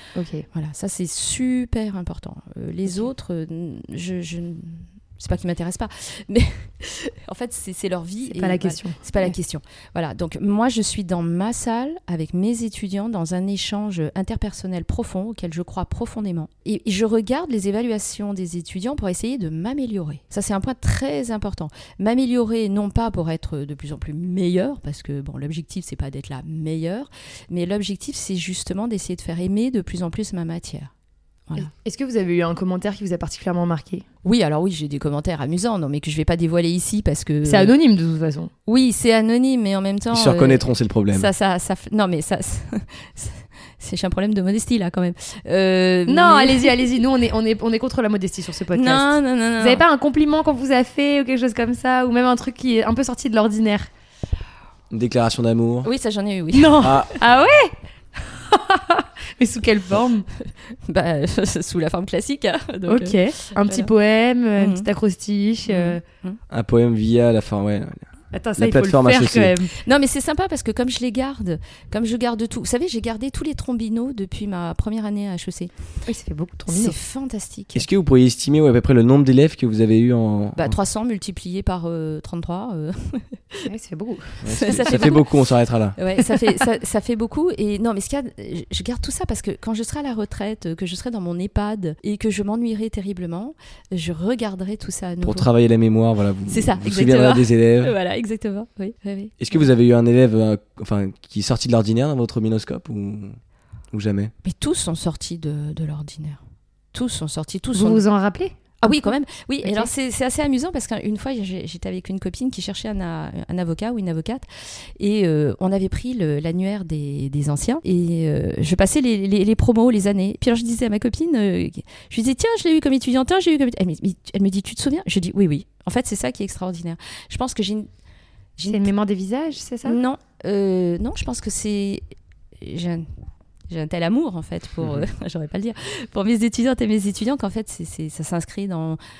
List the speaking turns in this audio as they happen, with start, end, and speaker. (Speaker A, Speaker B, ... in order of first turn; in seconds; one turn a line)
Speaker A: 0.1-0.5
Speaker B: 0.5-30.9
Speaker A: 8.3-9.3
Speaker A: 31.6-34.0
Speaker B: 34.2-37.7
Speaker A: 37.4-38.5
Speaker B: 38.6-46.9
Speaker C: 40.1-41.3
Speaker A: 46.1-53.9
Speaker B: 48.7-49.8
Speaker C: 54.9-55.9
Speaker B: 55.8-57.0
Speaker A: 56.5-57.8
Speaker C: 56.8-57.1
Speaker A: 58.3-60.3
Speaker B: 60.4-63.9
Speaker A: 62.9-66.0
Speaker B: 64.6-64.9
Speaker B: 65.7-66.4
Speaker C: 66.5-68.0
Speaker A: 68.3-69.7
Speaker C: 68.6-69.5
Speaker B: 69.7-75.7
Speaker A: 76.0-77.0
Speaker B: 76.7-77.8
Speaker C: 77.7-80.7
Speaker B: 80.5-83.7
Speaker A: 83.7-85.1
Speaker C: 84.4-86.0
Speaker B: 84.5-85.3
Speaker B: 86.0-95.5
Speaker C: 95.2-97.9
Speaker B: 96.5-99.4
Speaker C: 99.4-103.4
Speaker C: 103.9-104.3
Speaker B: 104.4-106.4
Speaker B: 106.9-108.0
Speaker A: 107.7-109.1
Speaker B: 108.8-114.4
Speaker A: 109.6-109.9
Speaker B: 115.0-127.9
Speaker B: 128.6-128.9
Speaker A: 128.7-130.0
Speaker B: 129.8-132.0
Speaker B: 132.6-133.1
Speaker B: 133.7-139.0